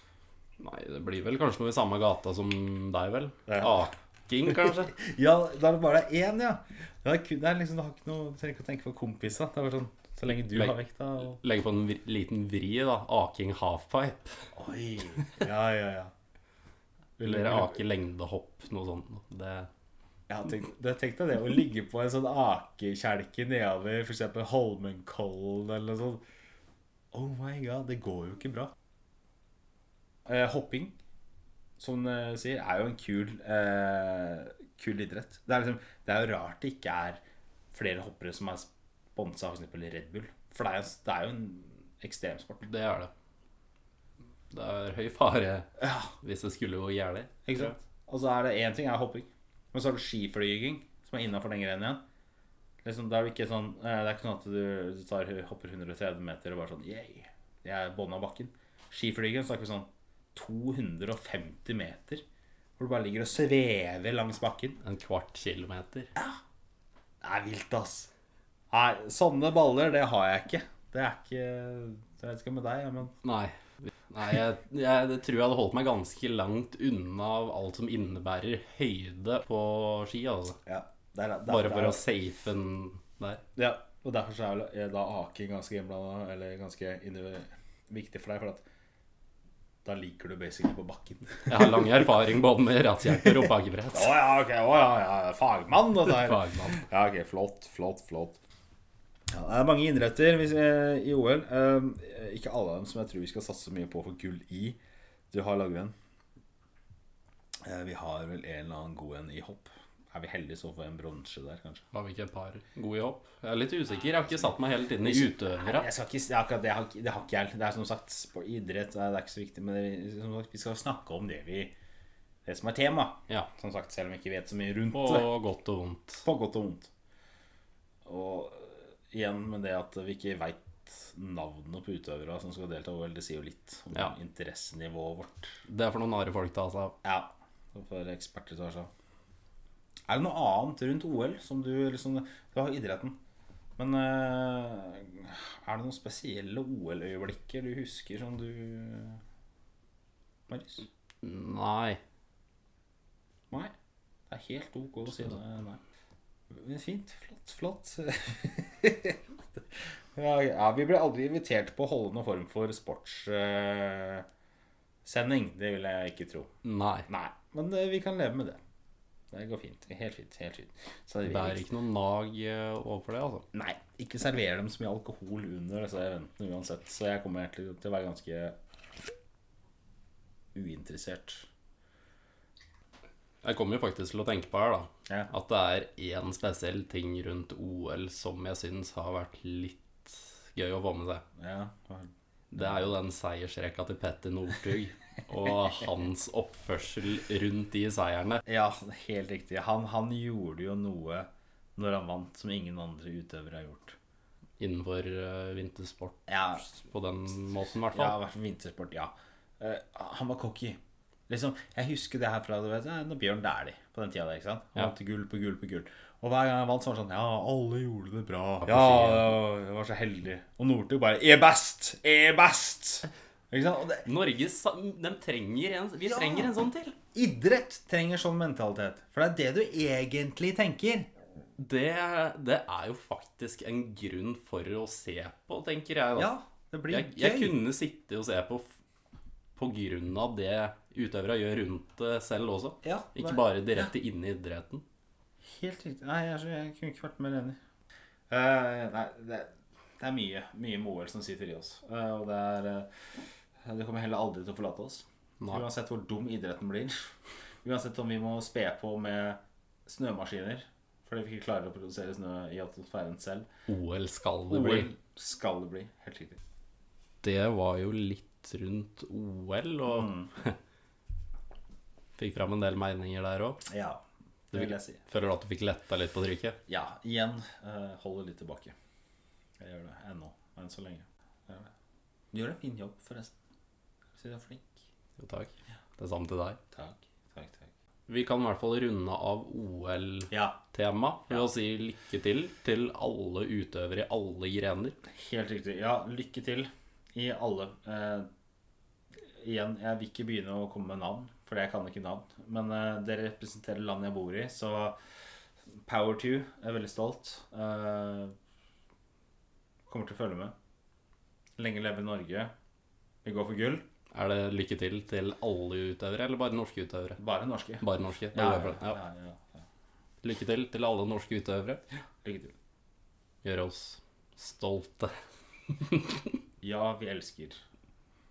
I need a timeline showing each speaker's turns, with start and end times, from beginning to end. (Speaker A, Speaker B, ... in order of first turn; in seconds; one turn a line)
Speaker A: 0.6-4.9
Speaker B: 3.5-3.9
Speaker B: 4.5-11.4
Speaker A: 10.5-10.8
Speaker A: 11.3-14.4
Speaker B: 14.6-16.1
Speaker B: 17.2-17.8
Speaker A: 17.2-19.7
Speaker B: 20.3-26.2
Speaker B: 27.1-28.7
Speaker B: 30.3-31.0
Speaker B: 31.8-37.2
Speaker B: 37.7-42.7
Speaker A: 42.6-43.1
Speaker A: 44.5-45.7
Speaker B: 45.8-46.1
Speaker A: 46.2-47.7
Speaker B: 47.5-52.0
Speaker B: 52.8-62.2
Speaker B: 62.8-64.8
Speaker A: 64.8-66.1
Speaker B: 67.2-68.1
Speaker B: 68.7-73.2
Speaker A: 73.2-80.6
Speaker B: 80.7-82.0
Speaker A: 81.5-83.4
Speaker B: 83.6-88.6
Speaker B: 89.8-92.0
Speaker A: 91.5-94.2
Speaker B: 93.9-98.4
Speaker A: 96.0-96.8
Speaker B: 99.3-104.8
Speaker B: 105.3-105.9
Speaker B: 107.7-111.8
Speaker A: 111.9-115.9
Speaker B: 115.0-121.7
Speaker B: 122.5-125.3
Speaker A: 124.9-126.2
Speaker B: 126.2-126.9
Speaker B: 128.1-135.6
Speaker A: 135.7-137.0
Speaker B: 137.0-138.9
Speaker B: 140.1-143.2
Speaker B: 143.8-149.2
Speaker B: 150.5-150.9
Speaker A: 151.2-152.0
Speaker B: 154.3-155.8
Speaker B: 156.5-159.6
Speaker B: 160.2-164.3
Speaker B: 165.1-166.5
Speaker A: 166.6-167.1
Speaker B: 167.1-168.6
Speaker B: 169.3-171.6
Speaker A: 171.2-173.4
Speaker B: 173.5-178.6
Speaker B: 180.6-181.5
Speaker A: 183.4-191.2
Speaker B: 191.4-192.9
Speaker A: 192.5-198.4
Speaker B: 198.5-204.0
Speaker A: 204.6-208.2
Speaker B: 206.3-206.8
Speaker B: 207.9-210.8
Speaker B: 211.3-224.1
Speaker A: 218.6-219.3
Speaker A: 224.0-227.0
Speaker B: 226.0-226.6
Speaker B: 227.1-231.1
Speaker A: 231.6-236.3
Speaker B: 236.2-237.6
Speaker A: 236.9-238.7
Speaker A: 239.6-244.8
Speaker B: 242.8-243.9
Speaker B: 245.4-247.6
Speaker B: 248.3-252.9
Speaker B: 253.7-257.1
Speaker B: 257.6-263.5
Speaker A: 263.7-264.9
Speaker B: 264.5-266.4
Speaker A: 267.2-270.6
Speaker B: 269.9-270.3
Speaker A: 272.2-273.6
Speaker B: 273.7-275.0
Speaker A: 274.5-276.6
Speaker B: 276.7-278.7
Speaker B: 279.6-281.7
Speaker B: 282.3-283.4
Speaker B: 284.1-284.8
Speaker A: 285.2-286.6
Speaker B: 286.7-287.7
Speaker A: 288.1-295.0
Speaker B: 290.3-290.6
Speaker B: 295.1-298.3
Speaker B: 299.3-305.0
Speaker B: 305.9-308.3
Speaker B: 309.9-310.5
Speaker B: 311.6-312.5
Speaker B: 313.2-313.9
Speaker A: 314.1-317.2
Speaker B: 317.2-319.6
Speaker A: 317.8-319.0
Speaker A: 320.2-321.8
Speaker B: 322.2-322.6
Speaker A: 323.4-325.1
Speaker A: 325.8-326.4
Speaker B: 326.6-327.6